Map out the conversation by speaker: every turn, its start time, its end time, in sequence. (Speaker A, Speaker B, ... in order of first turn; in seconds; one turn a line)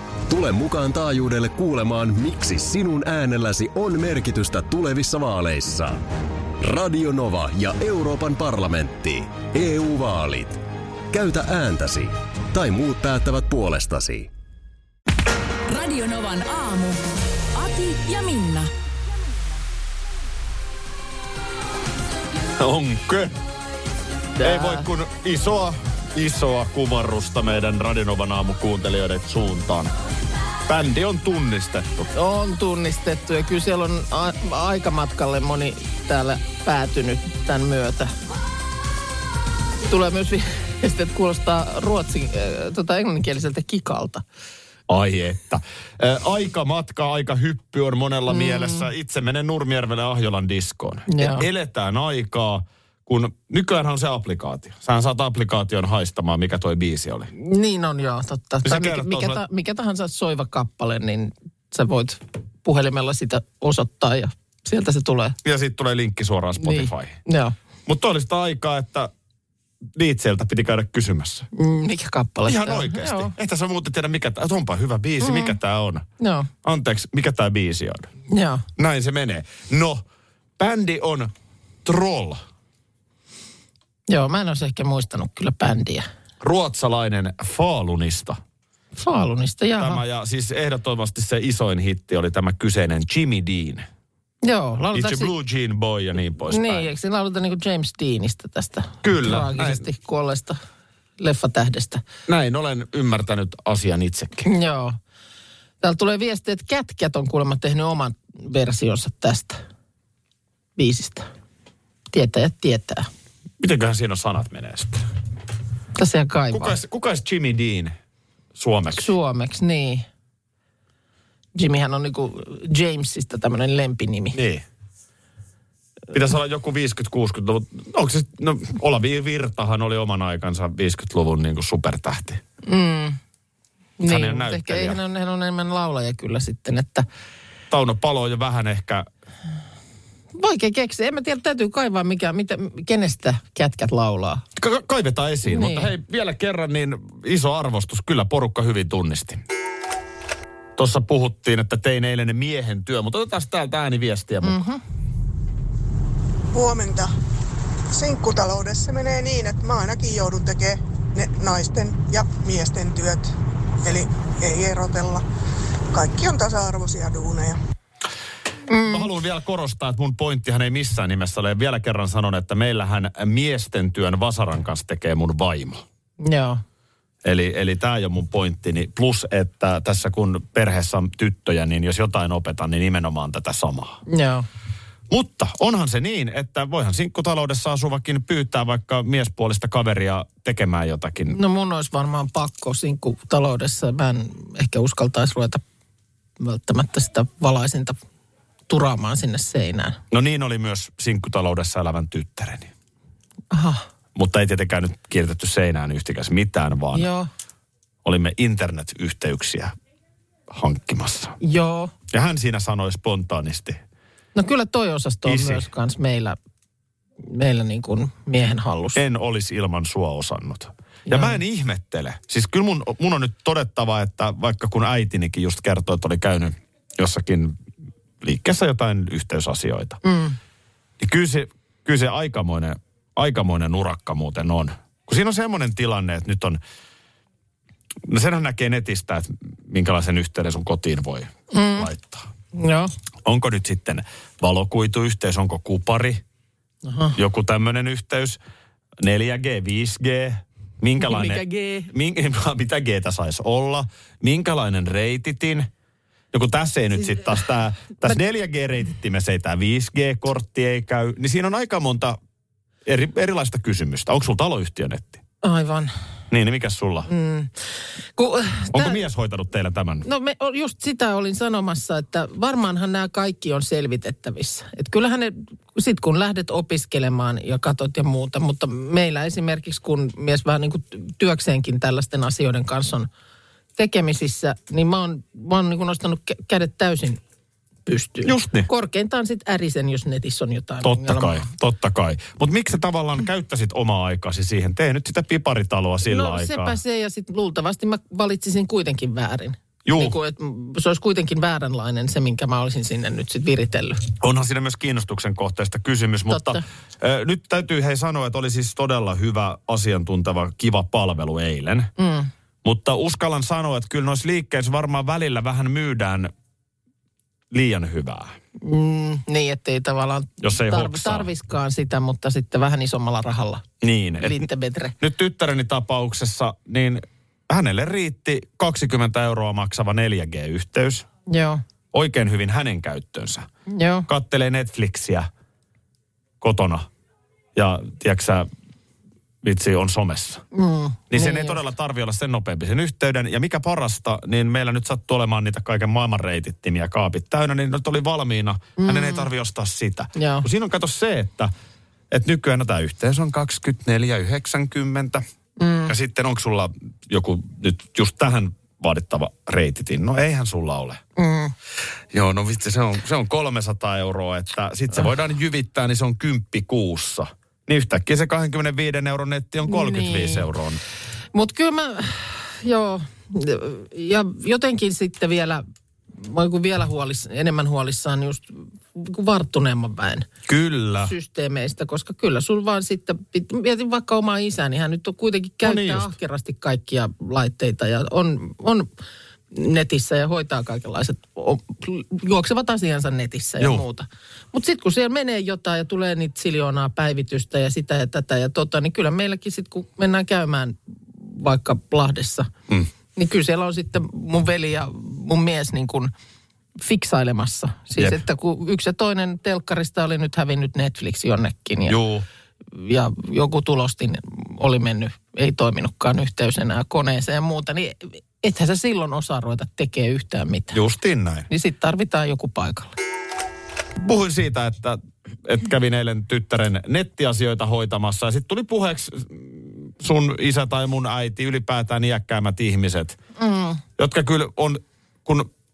Speaker A: 0.3-6.0
Speaker A: 6.6-14.3
Speaker B: 15.7-17.0
Speaker B: 17.5-18.7
Speaker C: 22.6-23.4
Speaker D: 24.4-24.9
Speaker C: 24.4-29.9
Speaker C: 30.7-32.1
Speaker D: 32.1-38.1
Speaker D: 39.9-44.2
Speaker C: 44.9-57.3
Speaker D: 48.3-48.8
Speaker D: 51.1-51.4
Speaker D: 57.3-65.4
Speaker C: 58.6-59.4
Speaker C: 65.4-67.2
Speaker D: 66.6-67.5
Speaker C: 67.8-69.1
Speaker C: 69.9-71.5
Speaker D: 71.5-73.3
Speaker C: 72.5-76.0
Speaker D: 75.2-75.5
Speaker D: 76.2-76.5
Speaker C: 76.6-78.1
Speaker D: 78.3-78.6
Speaker C: 78.8-80.0
Speaker C: 80.6-81.3
Speaker C: 81.8-82.4
Speaker D: 84.1-86.0
Speaker C: 86.4-88.4
Speaker D: 89.0-90.0
Speaker C: 89.8-93.8
Speaker D: 94.4-95.3
Speaker C: 94.9-96.9
Speaker D: 96.5-100.6
Speaker C: 99.0-99.9
Speaker D: 101.2-102.0
Speaker C: 102.3-104.5
Speaker D: 104.4-105.0
Speaker D: 105.8-109.6
Speaker D: 110.8-111.3
Speaker D: 112.1-113.1
Speaker C: 113.6-115.0
Speaker D: 116.0-116.8
Speaker C: 116.5-117.9
Speaker C: 118.5-119.1
Speaker D: 118.9-120.0
Speaker D: 121.5-124.4
Speaker C: 124.3-124.6
Speaker C: 126.1-132.4
Speaker D: 132.6-133.2
Speaker D: 134.0-137.1
Speaker C: 134.1-135.0
Speaker C: 137.7-139.1
Speaker D: 140.3-144.4
Speaker C: 144.6-149.4
Speaker D: 145.4-145.9
Speaker C: 150.8-154.6
Speaker D: 154.4-154.8
Speaker E: 156.5-157.1
Speaker E: 157.9-165.2
Speaker E: 165.9-167.6
Speaker D: 168.7-169.1
Speaker C: 168.9-175.8
Speaker D: 176.2-176.6
Speaker C: 177.2-184.0
Speaker D: 184.1-184.4
Speaker C: 185.1-191.4
Speaker D: 191.3-195.6
Speaker D: 196.4-198.0
Speaker D: 198.7-200.0
Speaker C: 200.1-202.7
Speaker D: 203.5-203.9
Speaker C: 204.1-207.1
Speaker D: 206.9-207.3
Speaker C: 208.0-209.7
Speaker C: 210.5-211.4
Speaker D: 211.4-211.9
Speaker C: 212.1-213.8
Speaker D: 214.3-216.4
Speaker C: 215.2-215.7
Speaker D: 217.2-219.0
Speaker C: 218.9-227.6
Speaker D: 221.1-221.4
Speaker C: 228.2-230.0
Speaker D: 230.0-230.4
Speaker C: 231.0-236.6
Speaker C: 238.1-242.3
Speaker D: 241.5-241.9
Speaker D: 242.6-242.9
Speaker C: 243.2-246.2
Speaker D: 246.8-247.2
Speaker C: 247.2-248.4
Speaker C: 249.0-255.7
Speaker D: 251.0-251.9
Speaker C: 256.3-262.2
Speaker C: 262.8-265.2
Speaker D: 265.4-265.9
Speaker C: 266.3-267.1
Speaker D: 267.1-267.5
Speaker D: 268.1-269.0
Speaker C: 268.7-270.1
Speaker D: 270.0-283.1
Speaker D: 283.8-287.2
Speaker D: 287.9-291.5
Speaker C: 288.2-288.7
Speaker C: 290.8-296.8
Speaker D: 296.0-304.1
Speaker C: 299.8-300.2
Speaker C: 304.2-311.9
Speaker D: 306.3-306.6
Speaker D: 312.0-312.3
Speaker C: 312.6-316.3
Speaker C: 317.5-318.4
Speaker D: 318.6-324.9
Speaker C: 320.4-321.3
Speaker C: 323.8-324.5
Speaker C: 325.0-331.1
Speaker D: 331.3-331.6
Speaker C: 331.9-333.5
Speaker D: 333.7-334.1
Speaker C: 334.1-335.3
Speaker C: 336.4-336.9
Speaker C: 337.5-338.5
Speaker C: 339.4-340.4
Speaker D: 340.5-341.6
Speaker C: 341.1-351.5
Speaker D: 348.8-349.3
Speaker D: 350.1-350.4
Speaker C: 352.1-355.2
Speaker D: 355.6-355.9
Speaker C: 355.9-361.0
Speaker D: 361.2-361.5
Speaker C: 362.1-370.8
Speaker D: 369.7-370.4
Speaker D: 371.3-375.6
Speaker D: 376.1-380.3
Speaker C: 380.5-381.1
Speaker D: 381.0-388.9
Speaker C: 385.6-386.1
Speaker D: 389.5-402.5
Speaker D: 403.1-406.1
Speaker D: 406.8-412.0
Speaker C: 408.0-408.2
Speaker C: 411.9-412.2
Speaker D: 412.7-420.7
Speaker C: 420.7-421.5
Speaker D: 421.5-422.9
Speaker C: 424.0-433.2
Speaker D: 433.4-433.8
Speaker C: 434.0-435.5